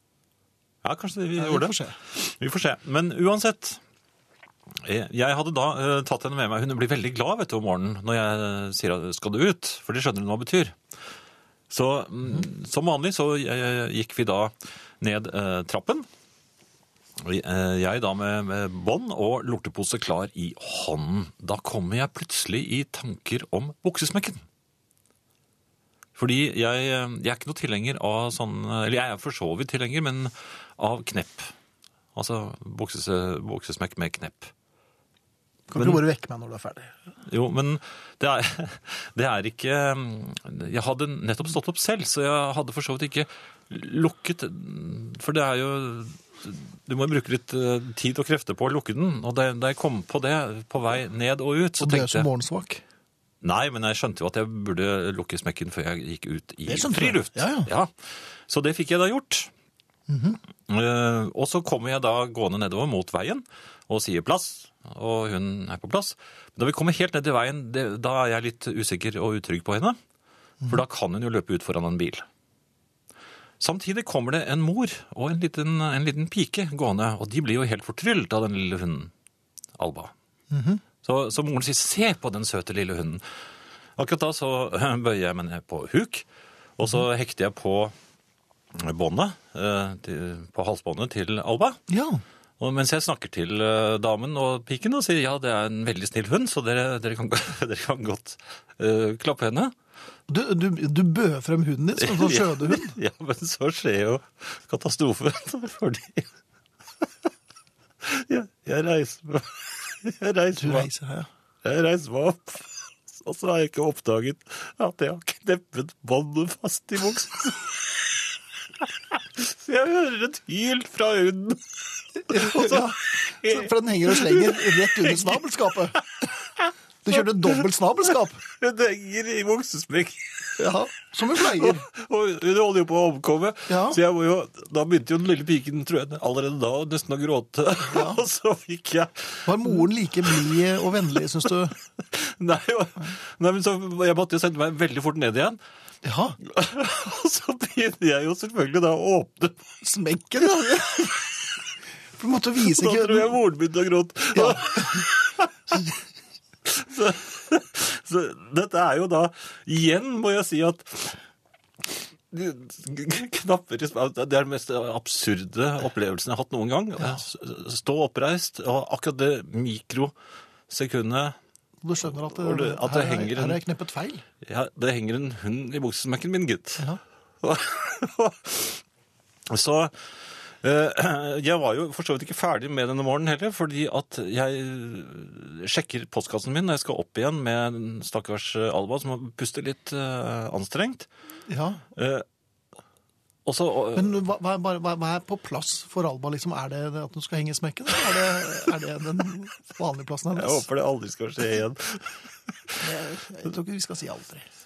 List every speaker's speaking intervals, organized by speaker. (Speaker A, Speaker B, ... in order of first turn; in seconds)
Speaker A: 0.8-3.8, 4.8-10.8, 11.7-16.1, 17.2-24.4, 26.1-31.5, 32.1-34.5, 35.7-36.0, 37.2-52.3, 53.4-59.5, 60.7-70.0, 70.7-72.2, 73.6-79.1, 79.8-80.1, 81.0-83.2, 84.0-86.2, 86.8-87.9, 88.7-91.8, 92.6-99.7, 102.0-106.3, 108.0-110.9, 111.6-118.2, 118.8-125.4, 125.9-127.6, 128.4-130.6, 131.3-140.6, 142.1-145.6, 146.4-149.6, 152.6-155.8, 156.6-161.2, 162.3-170.1, 170.7-171.4, 172.0-173.6, 174.4-176.9, 177.4-178.8, 179.5-191.1, 191.9-192.2, 193.4-194.2, 200.3-202.8
Speaker B: 1.4-2.0, 35.7-36.9, 51.8-52.8, 56.7-57.7, 60.1-60.4, 80.5-80.8, 91.9-92.2, 100.3-103.0, 110.5-111.3, 122.3-126.0, 127.0-128.4, 130.6-131.9, 133.7-134.0, 137.9-138.2, 139.4-141.7, 146.0-146.4, 149.8-151.2, 152.2-153.4, 154.3-155.0, 171.8-174.2, 191.5-191.8, 193.9-200.6, 202.8-204.5